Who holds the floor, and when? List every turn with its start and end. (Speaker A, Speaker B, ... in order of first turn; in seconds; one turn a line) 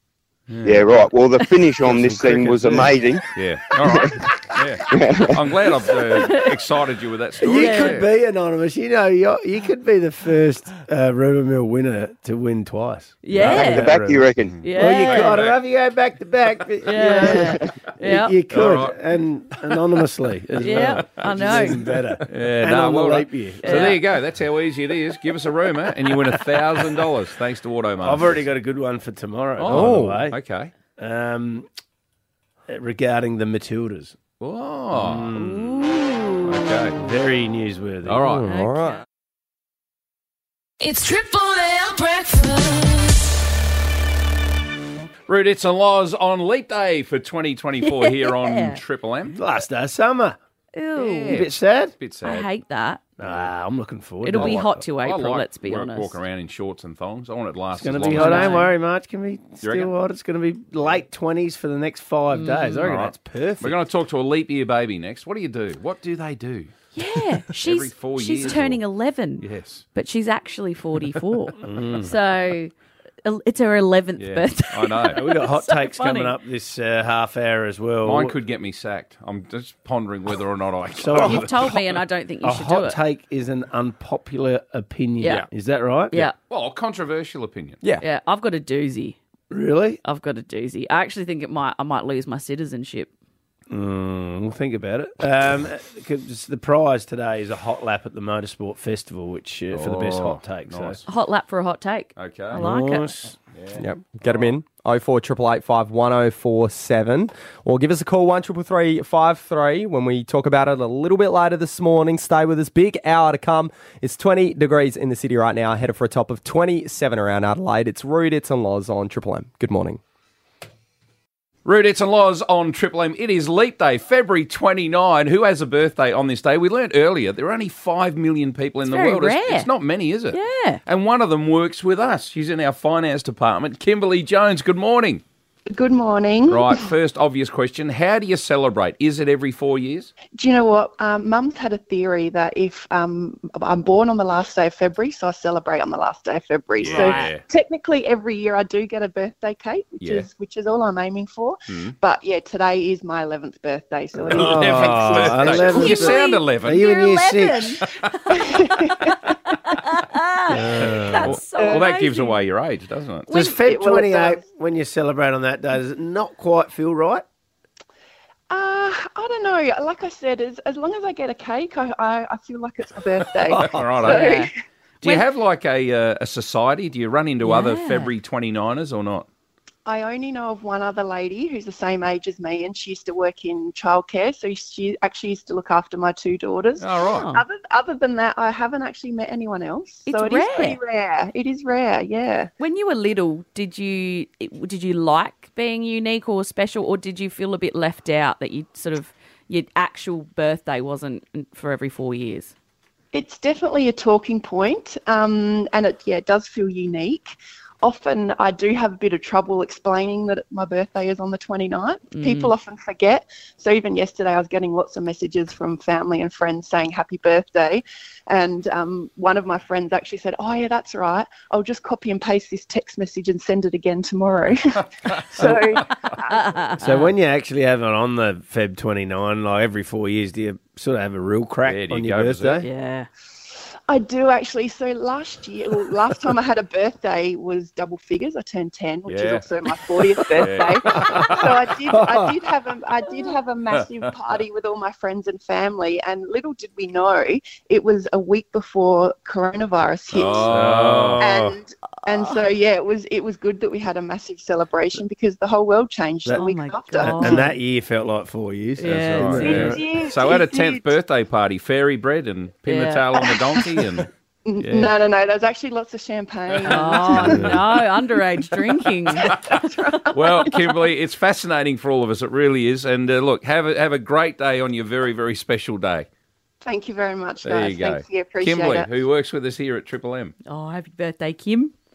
Speaker A: 0.5-1.1
Speaker B: 0.6-3.2
Speaker A: 1.9-8.1
Speaker C: 1.9-2.9
Speaker B: 3.8-4.3
Speaker B: 4.9-5.4
Speaker D: 6.1-6.5
Speaker C: 7.4-24.0
Speaker D: 7.5-8.0
Speaker D: 13.2-13.9
Speaker B: 13.4-14.6
Speaker A: 14.4-15.6
Speaker D: 14.6-15.4
Speaker D: 16.8-18.3
Speaker A: 18.5-19.0
Speaker D: 20.6-21.8
Speaker A: 20.6-21.7
Speaker A: 22.3-28.4
Speaker D: 23.6-24.0
Speaker C: 28.0-30.4
Speaker A: 29.6-30.7
Speaker E: 29.7-30.1
Speaker C: 31.0-31.7
Speaker C: 32.7-34.1
Speaker A: 34.4-35.4
Speaker C: 34.9-35.9
Speaker D: 35.4-36.5
Speaker A: 36.4-37.0
Speaker C: 37.0-38.5
Speaker A: 38.0-38.5
Speaker E: 38.5-39.0
Speaker D: 38.5-39.0
Speaker F: 40.8-43.2
Speaker A: 45.3-49.4
Speaker D: 47.8-48.8
Speaker C: 49.3-50.4
Speaker D: 50.7-51.4
Speaker A: 51.0-52.5
Speaker C: 51.3-51.9
Speaker D: 52.2-53.0
Speaker C: 53.2-54.8
Speaker D: 54.2-56.1
Speaker A: 54.3-58.7
Speaker C: 57.7-63.8
Speaker D: 58.1-58.7
Speaker A: 59.6-59.9
Speaker D: 62.3-62.9
Speaker A: 62.8-66.7
Speaker D: 66.9-72.7
Speaker A: 67.5-68.8
Speaker A: 69.4-69.8
Speaker C: 71.6-72.1
Speaker D: 73.2-76.4
Speaker A: 74.2-75.2
Speaker C: 75.1-78.3
Speaker A: 78.0-81.7
Speaker C: 80.9-81.7
Speaker D: 81.2-83.0
Speaker C: 82.4-86.3
Speaker D: 85.2-85.5
Speaker A: 86.3-87.8
Speaker D: 88.0-89.2
Speaker C: 89.5-90.0
Speaker D: 90.0-93.1
Speaker C: 93.7-101.0
Speaker A: 99.7-101.0
Speaker D: 101.1-103.1
Speaker A: 102.2-102.6
Speaker C: 102.5-103.3
Speaker A: 103.5-104.5
Speaker E: 103.8-120.0
Speaker A: 121.6-135.2
Speaker D: 128.8-129.7
Speaker D: 130.3-130.8
Speaker G: 135.7-136.9
Speaker A: 136.5-140.1
Speaker G: 140.3-156.0
Speaker A: 146.8-147.4
Speaker D: 146.8-147.3
Speaker A: 150.0-150.3
Speaker A: 151.7-151.9
Speaker C: 154.2-157.8
Speaker A: 154.3-156.8
Speaker D: 155.7-162.3
Speaker G: 158.3-159.2
Speaker C: 160.5-161.4
Speaker A: 160.8-163.3
Speaker G: 161.5-161.9
Speaker C: 163.3-167.2
Speaker D: 163.3-163.5
Speaker G: 163.5-164.4
Speaker G: 168.5-174.5
Speaker A: 173.4-174.5
Speaker D: 174.1-174.5
Speaker A: 175.0-179.2
Speaker D: 177.4-178.1
Speaker G: 179.8-192.5
Speaker A: 186.8-187.3
Speaker D: 187.1-187.4
Speaker D: 190.1-190.8
Speaker D: 192.6-202.5
Speaker G: 203.1-226.3
Speaker D: 212.1-212.5
Speaker D: 226.3-227.1
Speaker C: 226.8-232.7
Speaker A: 231.6-232.6
Speaker D: 232.6-233.1
Speaker G: 233.9-250.6
Speaker A: 239.1-239.5
Speaker A: 240.2-241.5
Speaker C: 240.9-241.3
Speaker C: 241.8-242.3
Speaker A: 243.7-244.1
Speaker A: 250.1-251.5
Speaker C: 250.4-251.5
Speaker G: 251.2-257.5
Speaker D: 252.1-252.4
Speaker C: 256.2-259.8
Speaker D: 256.3-257.5
Speaker D: 258.8-259.7
Speaker A: 258.8-264.1
Speaker G: 259.5-260.9
Speaker D: 262.6-263.1
Speaker G: 264.4-267.5
Speaker A: 264.6-264.9
Speaker A: 266.5-267.5
Speaker D: 266.6-269.3
Speaker C: 267.3-267.6
Speaker G: 269.1-270.6
Speaker A: 269.2-269.5
Speaker A: 270.1-276.1
Speaker G: 276.6-278.9
Speaker A: 277.4-280.3
Speaker D: 280.4-281.7